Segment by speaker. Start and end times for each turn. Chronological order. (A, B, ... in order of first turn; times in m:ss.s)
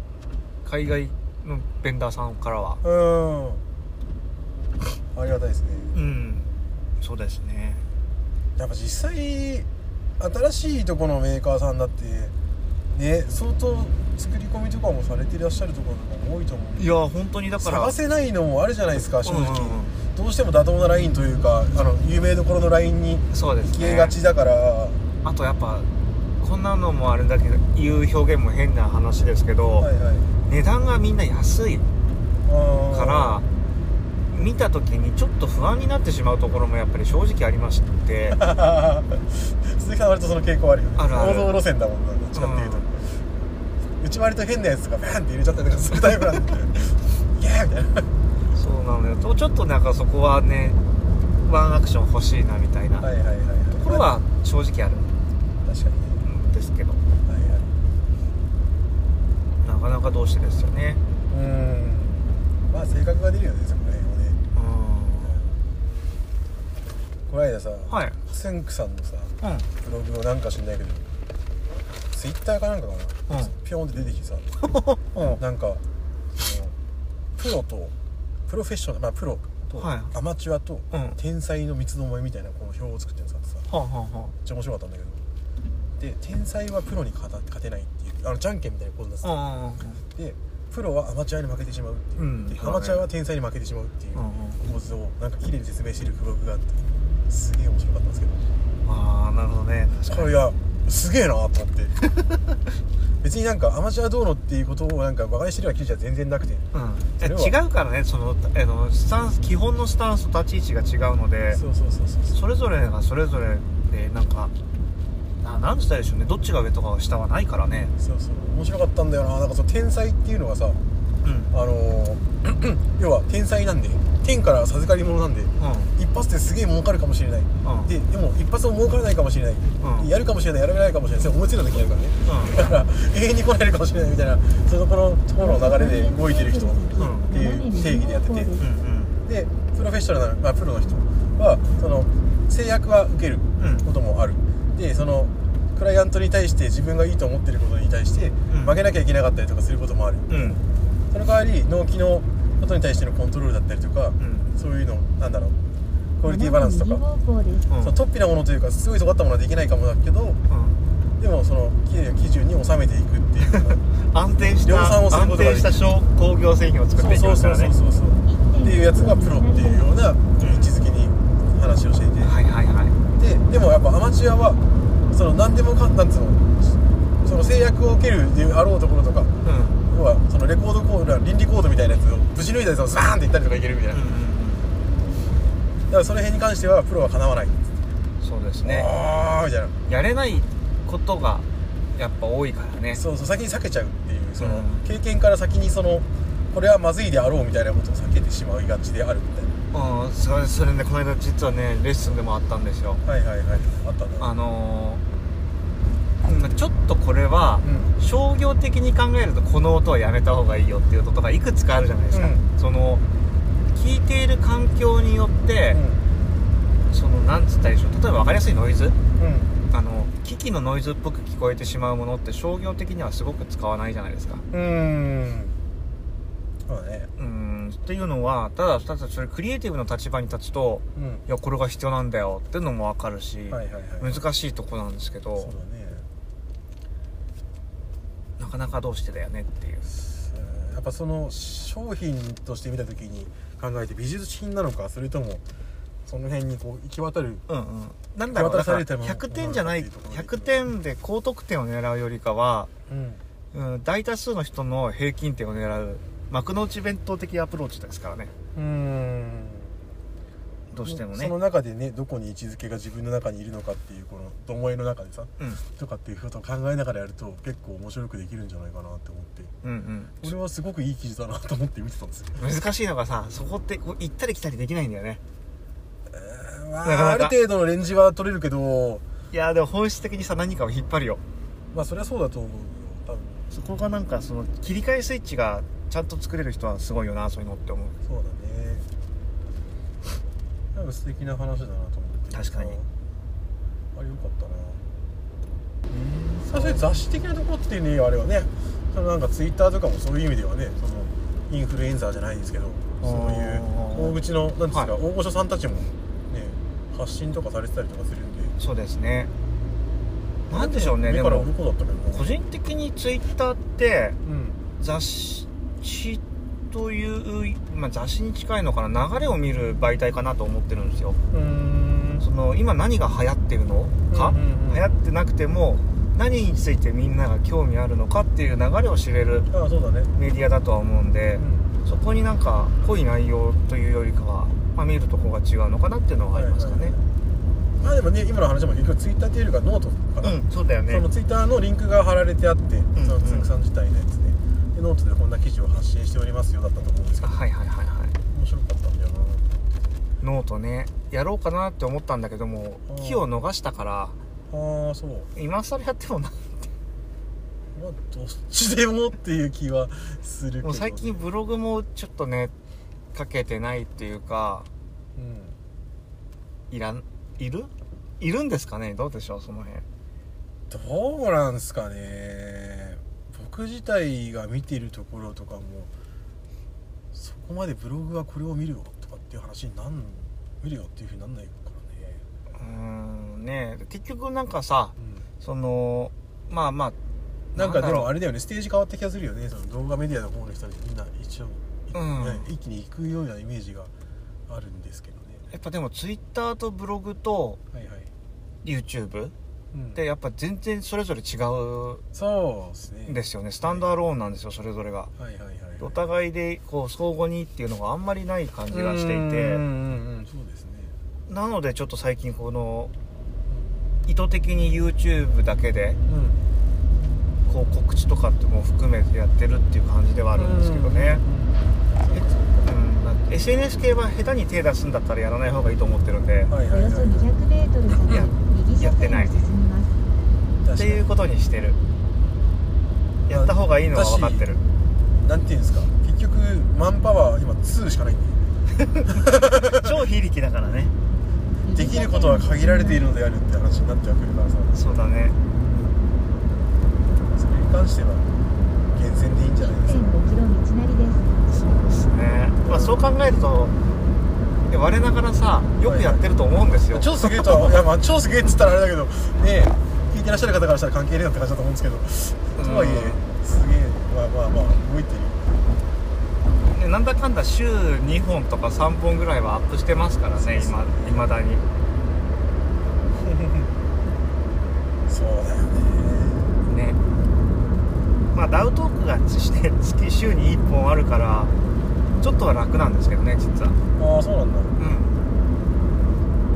0:00.6-0:02.8 A
0:02.8-0:03.6 B
0:05.1-0:05.9 B
0:05.9-0:07.8 A
0:08.6-0:09.7 B
0:10.2-0:12.3 B
0:12.9-0:16.9 B
0:16.8-0:17.9 A
0:17.6-0:25.0 B
0:19.2-0:19.9 A
0:23.3-0:24.2 A
0:25.2-0:25.9 A
0:26.4-0:29.9 A
0:29.8-0:30.3 B
0:30.4-0:31.8 A
0:32.4-0:33.4 B
0:32.9-0:33.4 A
0:34.3-0:38.4 A
0:38.3-0:43.2 B
0:41.0-0:41.6 A
0:42.3-0:42.8 A
0:44.0-0:48.1 B
0:48.5-0:50.8 A
0:51.4-0:53.1 A
0:53.0-0:54.1 B
0:53.7-0:55.1 A
0:55.6-0:56.2 B
0:56.2-0:57.0 A
0:57.2-0:57.7 B
0:59.6-1:01.0 A
1:01.3-1:04.4 B
1:04.5-1:05.4 A
1:05.2-1:05.6 B
1:07.3-1:11.1 B
1:07.9-1:08.2 A
1:09.4-1:09.7 A
1:12.1-1:14.5 B
1:14.6-1:15.4 A
1:15.3-1:15.8 B
1:16.3-1:16.8 B
1:17.4-1:17.9 B
1:18.5-1:23.6 B
1:19.7-1:20.1 A
1:20.9-1:21.2 A
1:23.7-1:24.3 A
1:24.4-1:25.2 B
1:26.0-1:29.3 B
1:29.2-1:30.0 A
1:30.1-1:38.5 B
1:32.2-1:33.0 A
1:34.1-1:34.6 A
1:38.8-1:40.3 A
1:40.0-1:42.0 B
1:42.2-1:42.4 A
1:43.2-1:46.6 B
1:46.7-1:51.6 A
1:47.2-1:47.6 B
1:51.5-1:52.4 B
1:52.3-1:54.5 A
1:55.4-1:57.9 A
1:58.0-2:00.8 B
2:01.2-2:01.5 A
2:01.5-2:18.6 B
2:05.6-2:05.9 A
2:07.6-2:07.9 A
2:09.8-2:10.1 A
2:12.2-2:12.6 A
2:15.4-2:18.6 C
2:17.0-2:17.3 A
2:18.6-2:19.1 A
2:19.2-2:35.6 B
2:23.6-2:23.9 A
2:28.5-2:28.8 A
2:30.3-2:30.6 A
2:34.2-2:34.5 A
2:36.2-2:37.0 B
2:36.2-2:37.7 C
2:37.7-2:38.0 A
2:37.8-2:40.4 B
2:40.5-2:40.8 A
2:41.2-2:43.8 B
2:43.4-2:47.7 A
2:44.6-2:45.9 B
2:47.0-2:52.3 B
2:48.2-2:50.0 C
2:50.4-2:50.7 A
2:52.2-2:53.0 A
2:53.2-2:59.3 B
2:59.4-2:59.8 A
2:59.9-3:04.1 B
3:03.9-3:04.7 A
3:05.9-3:07.8 B
3:08.2-3:08.9 A
3:08.6-3:09.8 B
3:09.9-3:13.0 A
3:12.9-3:19.5 B
3:14.4-3:14.9 A
3:19.7-3:23.0 A
3:23.0-3:24.3 B
3:24.2-3:25.0 A
3:26.2-3:33.0 A
3:27.6-3:27.9 B
3:32.1-3:32.4 B
3:33.7-3:35.8 A
3:35.7-3:36.0 B
3:36.9-3:39.0 A
3:39.2-3:39.6 B
3:39.7-3:44.4 A
3:44.5-3:45.6 B
3:46.7-3:47.1 B
3:47.2-3:55.5 A
3:51.0-3:51.2 B
3:53.5-3:54.2 B
3:55.4-3:56.0 B
3:58.4-3:59.9 A
4:00.1-4:05.4 B
4:06.0-4:07.4 B
4:07.5-4:12.7 A
4:08.3-4:10.6 B
4:12.9-4:13.2 B
4:13.5-4:18.3 A
4:18.5-4:19.8 B
4:20.7-4:21.3 A
4:20.8-4:29.5 B
4:29.6-4:30.3 A
4:30.2-4:32.4 B
4:32.4-4:35.2 A
4:36.1-4:39.0 B
4:36.8-4:37.3 A
4:39.3-4:41.2 A
4:41.7-4:43.6 B
4:43.5-4:48.0 A
4:48.0-4:48.9 B
4:50.7-4:52.9 B
4:52.3-4:52.8 A
4:53.9-4:54.8 B
4:55.9-4:56.8 A
4:56.4-5:08.5 B
5:03.0-5:04.2 A
5:08.6-5:09.3 A
5:10.5-5:12.2 B
5:10.5-5:11.5 A
5:12.1-5:14.2 A
5:14.2-5:14.6 B
5:14.8-5:21.2 A
5:21.3-5:22.2 B
5:22.2-5:29.5 A
5:24.1-5:24.8 B
5:29.5-5:30.1 B
5:30.2-5:36.9 A
5:31.4-5:31.7 B
5:36.3-5:37.0 B
5:37.8-5:47.4 B
5:40.2-5:41.0 A
5:42.9-5:43.5 A
5:47.2-5:48.2 A
5:48.3-5:50.0 B
5:50.2-5:54.2 A
5:52.9-5:53.2 B
5:54.5-5:55.3 B
5:55.3-5:56.7 A
5:57.7-6:01.2 B
6:00.6-6:02.5 A
6:03.1-6:04.7 A
6:05.2-6:05.6 B
6:06.7-6:09.8 A
6:10.7-6:15.9 B
6:17.1-6:22.2 B
6:22.5-6:27.0 A
6:25.0-6:25.2 B
6:27.5-6:28.1 A
6:27.5-6:33.9 B
6:31.9-6:32.5 A
6:34.5-6:35.4 B
6:35.5-6:37.6 A
6:37.7-6:38.1 B
6:38.6-6:39.3 A
6:39.7-6:40.0 B
6:39.9-6:42.0 A
6:42.1-6:43.9 B
6:43.1-6:45.1 A
6:45.2-6:46.0 B
6:45.8-6:49.6 A
6:48.7-6:50.9 B
6:51.3-6:52.9 A
6:53.5-6:53.8 B
6:54.0-6:56.0 A
6:56.0-6:56.4 B
6:57.4-7:01.2 A
7:00.3-7:02.7 B
7:02.1-7:06.5 A
7:06.5-7:07.3 B
7:06.7-7:10.0 C
7:07.9-7:09.3 A
7:10.6-7:11.0 B
7:10.7-7:11.8 A
7:13.3-7:14.4 B
7:13.3-7:14.6 A
7:15.2-7:18.4 B
7:18.8-7:20.9 A
7:19.1-7:19.9 B
7:21.6-7:23.0 C
7:21.7-7:25.0 B
7:24.7-7:25.3 A
7:27.3-7:28.2 B
7:28.9-7:30.1 B
7:29.6-7:31.4 C
7:31.5-7:33.7 A
7:32.6-7:33.0 B
7:34.7-7:37.7 A
7:35.8-7:36.2 B
7:36.9-7:45.4 B
7:42.6-7:43.2 A
7:46.6-7:51.6 A
7:50.4-7:51.3 B
7:53.2-7:53.7 B
7:55.1-7:56.6 B
7:56.6-7:57.0 A
7:58.3-8:01.5 A
8:02.2-8:03.8 A
8:04.0-8:04.8 B
8:04.8-8:05.2 A